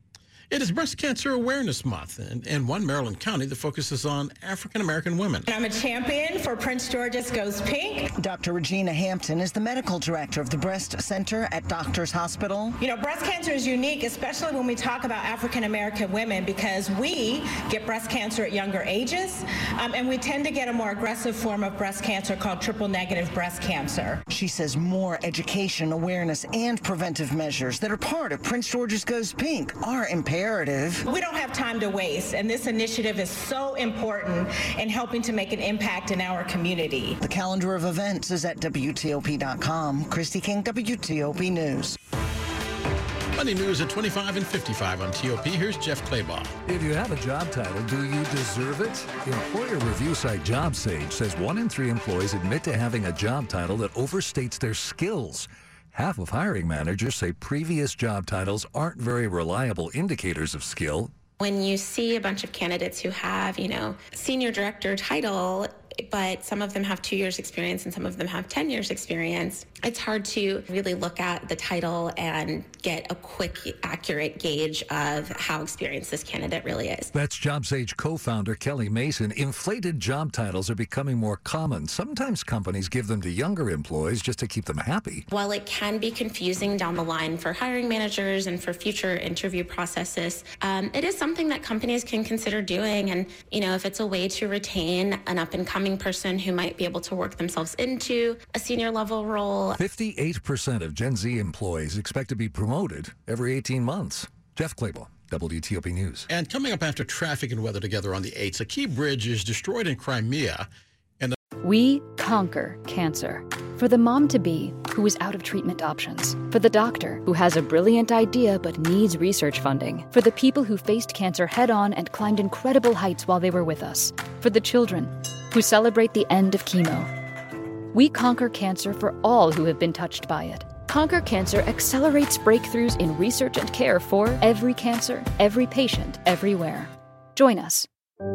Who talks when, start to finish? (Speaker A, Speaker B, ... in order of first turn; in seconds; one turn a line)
Speaker A: 0.5-5.5
Speaker B: 5.5-8.1
Speaker C: 8.2-12.7
Speaker B: 12.8-24.2
Speaker C: 24.3-31.1
Speaker B: 31.1-37.2
Speaker C: 37.2-42.0
Speaker A: 43.4-46.5
Speaker D: 46.6-61.1
Speaker E: 61.4-77.1
Speaker D: 77.1-85.2
Speaker E: 85.3-99.8
Speaker D: 99.8-106.3
Speaker A: 106.3-110.7
Speaker F: 111.6-127.1
Speaker F: 127.9-137.9